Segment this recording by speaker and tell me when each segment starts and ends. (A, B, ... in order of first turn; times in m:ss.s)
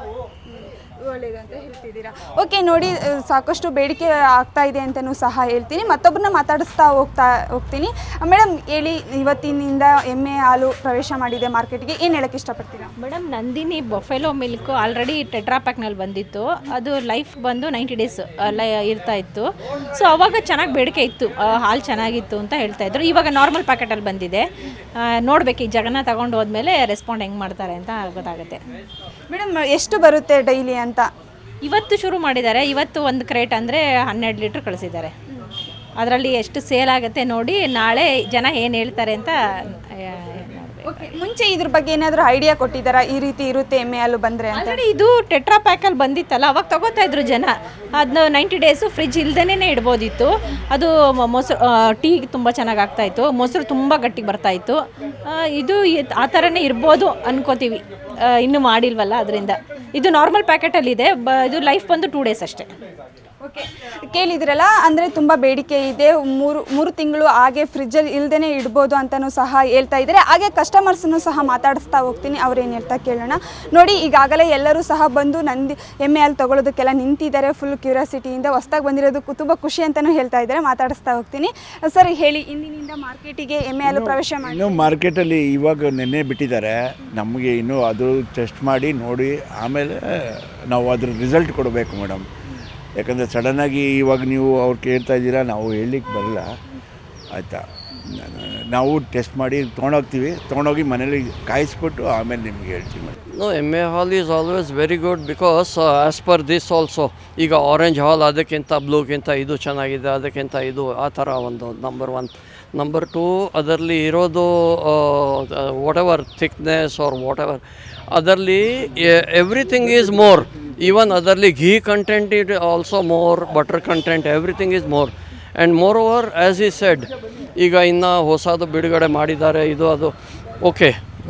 0:00.5-0:12.9 A
0:13.0-0:24.4 B
0:25.2-0:28.6 B
0:29.3-0:31.1 A
0:31.6-0:35.1 B
0:36.0-0:39.4 B
0:40.0-0:41.1 B
0:40.9-0:44.8 A
0:44.5-1:02.7 B
1:03.4-1:24.9 A
1:23.8-1:30.0 C
1:30.7-1:32.2 C
1:33.0-1:36.5 C
1:37.3-1:37.6 C
1:38.2-1:43.2 C
1:43.3-2:10.9 D